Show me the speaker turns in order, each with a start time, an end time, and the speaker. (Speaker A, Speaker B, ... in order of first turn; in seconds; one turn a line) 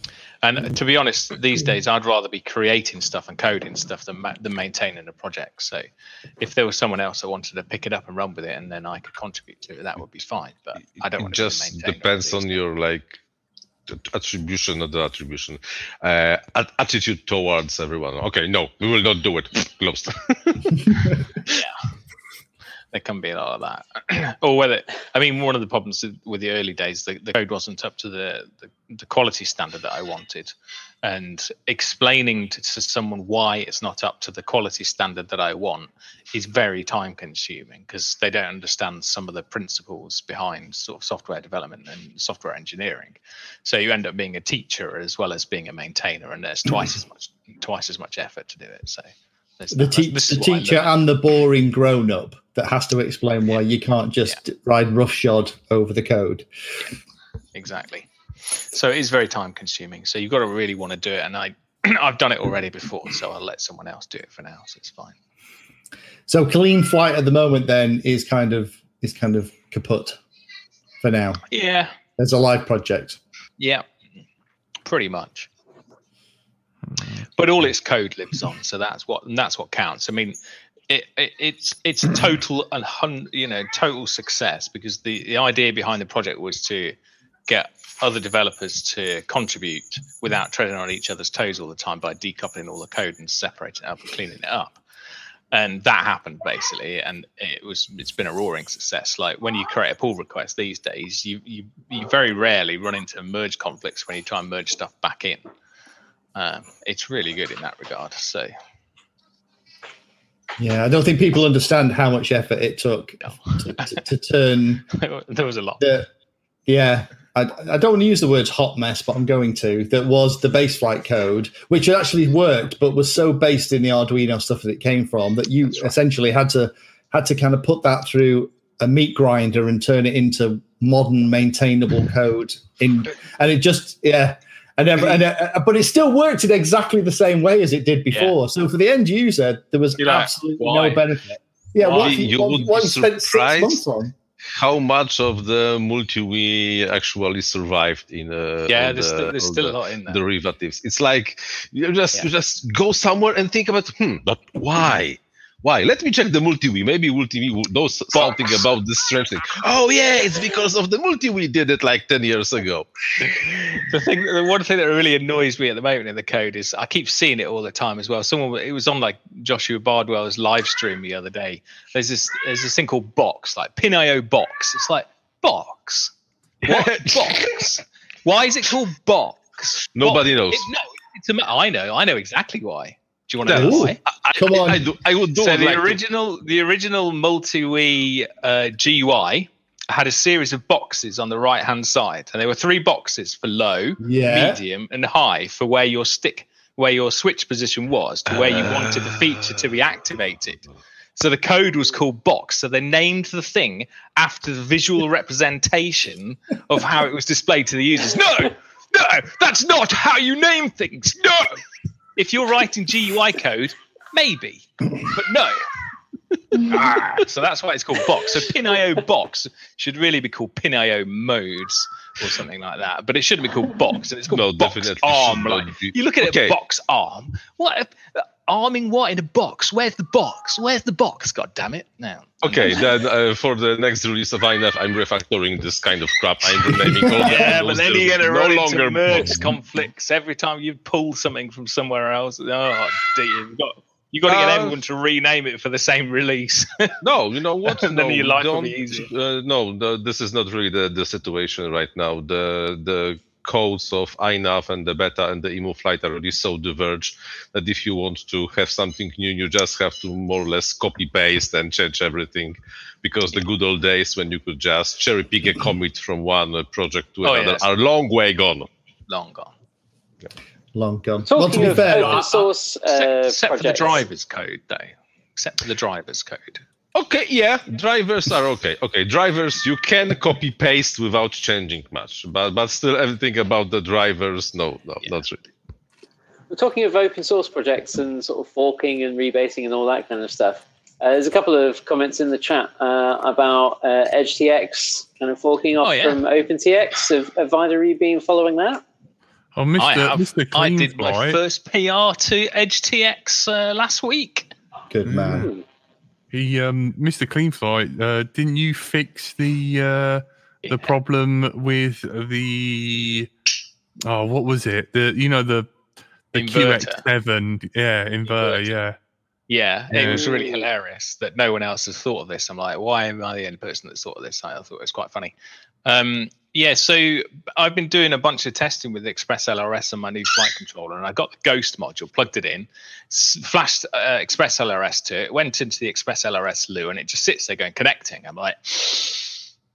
Speaker A: 0.4-5.8
Speaker A: 6.4-12.6
Speaker B: 11.1-13.2
Speaker B: 13.9-21.5
Speaker A: 22.9-50.9
Speaker C: 49.7-56.5
Speaker A: 57.5-65.1
Speaker C: 66.3-70.2
Speaker C: 71.0-71.4
Speaker A: 71.5-71.9
Speaker C: 72.2-73.2
Speaker A: 73.6-73.8
Speaker A: 74.8-75.5
Speaker A: 77.4-80.3
Speaker A: 80.9-86.9
Speaker A: 87.5-94.8
Speaker A: 95.5-105.5
Speaker A: 106.3-108.5
Speaker C: 110.6-114.8
Speaker A: 114.9-115.8
Speaker C: 115.8-116.1
Speaker C: 116.7-144.1
Speaker A: 140.0-141.0
Speaker A: 141.8-142.2
Speaker B: 142.0-143.8
Speaker B: 144.5-162.9
Speaker A: 148.7-150.2
Speaker A: 158.1-158.6
Speaker A: 163.2-176.1
Speaker B: 176.6-177.5
Speaker A: 176.6-184.0
Speaker B: 179.9-180.7
Speaker B: 183.4-186.0
Speaker C: 183.5-184.9
Speaker A: 185.3-200.6
Speaker C: 194.0-194.6
Speaker B: 198.3-199.4
Speaker A: 201.2-211.6
Speaker A: 212.2-215.6
Speaker A: 216.5-232.8
Speaker B: 224.3-226.6
Speaker B: 232.4-239.5
Speaker A: 237.1-246.9
Speaker B: 244.3-244.8
Speaker B: 247.0-268.7
Speaker A: 247.7-249.1
Speaker A: 267.2-267.7
Speaker A: 269.1-269.5
Speaker C: 270.7-272.2
Speaker D: 271.3-274.0
Speaker A: 271.5-276.6
Speaker B: 276.9-285.4
Speaker D: 286.5-298.8
Speaker A: 295.8-296.2
Speaker E: 299.5-301.4
Speaker A: 299.8-304.5
Speaker C: 304.9-305.5
Speaker D: 305.3-305.6
Speaker E: 306.3-313.3
Speaker A: 310.6-310.9
Speaker E: 314.1-315.7
Speaker E: 316.3-319.0
Speaker A: 316.3-317.0
Speaker A: 318.3-318.6
Speaker A: 319.5-325.3
Speaker E: 319.9-320.2
Speaker D: 320.1-320.6
Speaker A: 325.8-339.4